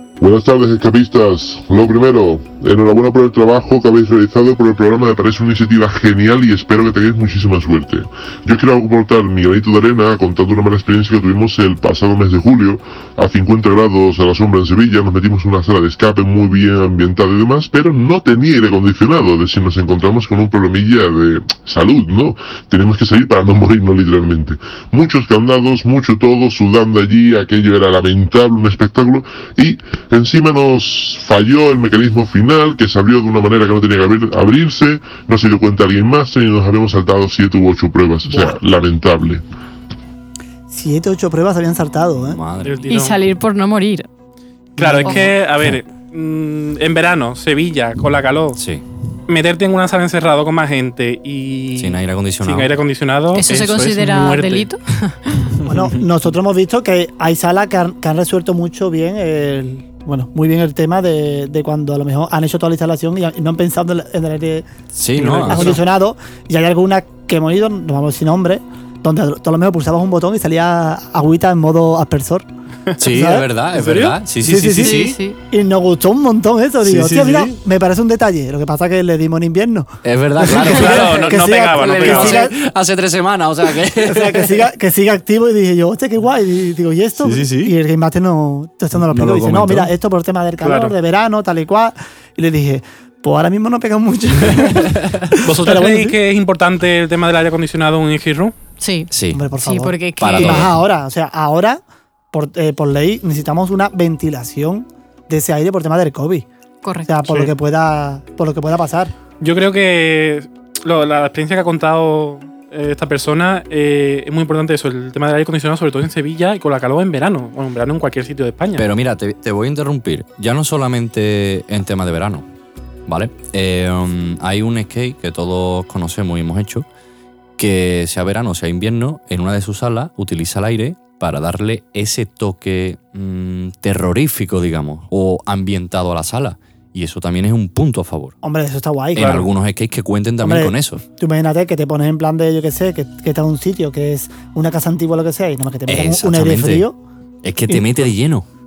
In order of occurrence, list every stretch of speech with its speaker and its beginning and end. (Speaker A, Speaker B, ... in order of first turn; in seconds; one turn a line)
Speaker A: 0.2-39.4
Speaker B: 40.7-42.4
Speaker C: 42.1-42.9
Speaker D: 42.6-43.2
Speaker E: 42.9-44.1
Speaker B: 44.8-45.3
Speaker D: 44.8-48.6
Speaker C: 48.6-48.8
Speaker D: 49.3-54.7
Speaker C: 51.8-52.7
Speaker E: 53.3-55.5
Speaker B: 55.7-64.7
Speaker C: 64.9-65.8
Speaker D: 65.2-65.8
Speaker B: 65.4-72.5
Speaker C: 73.0-75.2
Speaker B: 73.1-73.5
Speaker D: 73.7-74.2
Speaker B: 74.4-82.5
Speaker E: 74.8-75.4
Speaker C: 76.8-77.5
Speaker C: 80.0-84.6
Speaker D: 80.5-82.5
Speaker B: 84.0-96.2
Speaker C: 87.2-87.7
Speaker C: 89.0-89.9
Speaker D: 90.6-90.9
Speaker D: 95.4-98.5
Speaker E: 98.8-100.7
Speaker C: 99.1-99.4
Speaker B: 99.3-101.8
Speaker C: 100.2-100.7
Speaker B: 102.3-106.5
Speaker E: 106.8-107.1
Speaker B: 107.1-109.1
Speaker D: 109.4-118.9
Speaker C: 118.8-122.5
Speaker C: 123.1-126.9
Speaker C: 127.6-138.3
Speaker B: 138.4-139.5
Speaker C: 139.2-141.0
Speaker D: 139.2-139.5
Speaker B: 140.4-147.0
Speaker C: 145.9-146.9
Speaker C: 147.4-148.5
Speaker B: 147.7-148.1